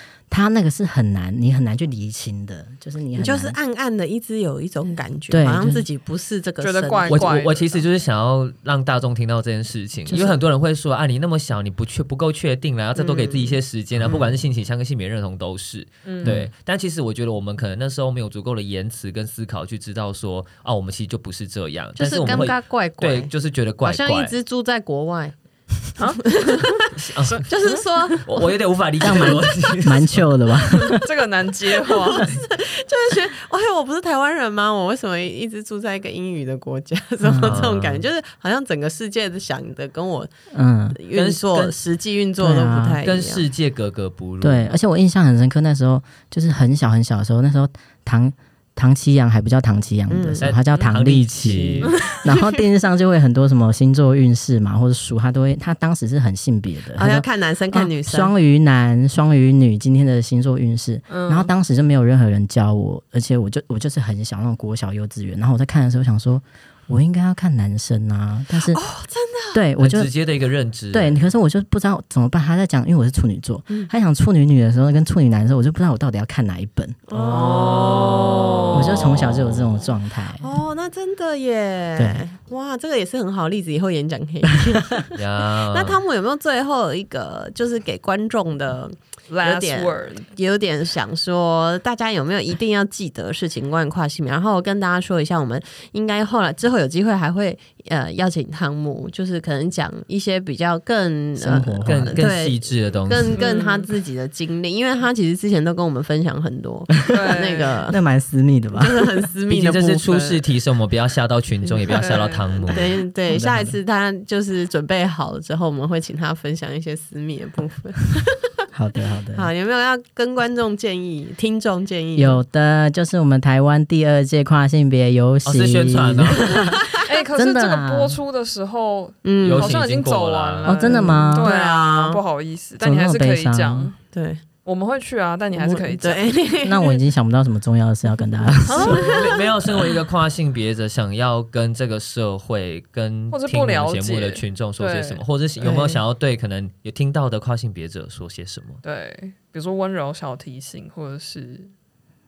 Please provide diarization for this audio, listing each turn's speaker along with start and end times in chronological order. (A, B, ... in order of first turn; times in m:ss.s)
0:00.3-0:03.6 A
0:03.2-0:07.3 B
0:05.3-0:05.8 A
0:06.6-0:07.8 C
0:07.1-0:24.3 D
0:10.1-0:10.4 A
0:13.0-0:14.4 B
0:16.0-0:16.4 C
0:22.0-0:23.3 B
0:23.8-0:25.4 B
0:26.0-0:27.8 C
0:26.3-0:26.8 B
0:27.0-0:27.5 D
0:27.5-0:28.3 B
0:28.2-0:30.2 D
0:29.0-0:31.0 A
0:30.8-0:32.3 C
0:32.1-0:40.3 B
0:37.2-0:37.7 A
0:37.4-0:38.1 D
0:40.5-0:41.0 A
0:40.9-0:43.4 B
0:41.1-0:41.8 D
0:42.4-0:43.0 A
0:43.0-0:44.7 D
0:44.4-1:08.8 A
0:50.1-0:50.4 B
0:50.4-0:52.0 D
0:51.8-0:52.2 C
0:57.0-0:58.3 B
1:01.1-1:01.5 C
1:08.7-1:09.6 B
1:09.5-1:10.1 A
1:09.8-1:11.2 D
1:10.9-1:17.0 A
1:17.1-1:18.8 B
1:17.1-1:19.8 D
1:17.3-1:19.0 C
1:18.7-1:20.5 A
1:20.4-1:48.0 B
1:22.0-1:22.2 A
1:25.1-1:26.0 D
1:29.3-1:30.3 C
1:41.4-1:42.3 A
1:41.8-1:43.4 D
1:43.3-1:43.9 C
1:47.1-1:47.8 C
1:47.9-1:49.1 A
1:48.8-1:50.4 B
1:49.5-1:53.0 D
1:52.0-1:52.7 C
1:52.7-1:58.4 B
1:53.3-1:53.7 A
1:58.7-1:59.5 A
1:59.4-2:02.4 B
2:02.2-2:08.2 A
2:05.4-2:06.7 D
2:07.0-2:14.0 C
2:09.2-2:09.8 B
2:09.4-2:10.8 D
2:10.6-2:11.5 A
2:10.9-2:12.2 B
2:12.8-2:13.9 A
2:14.1-2:14.4 B
2:14.6-2:16.3 C
2:15.6-2:17.0 B
2:16.6-2:19.0 A
2:18.7-2:19.4 C
2:18.9-2:19.1 B
2:19.0-2:28.8 D
2:23.3-2:25.2 C
2:25.6-2:26.0 B
2:28.8-2:31.7 C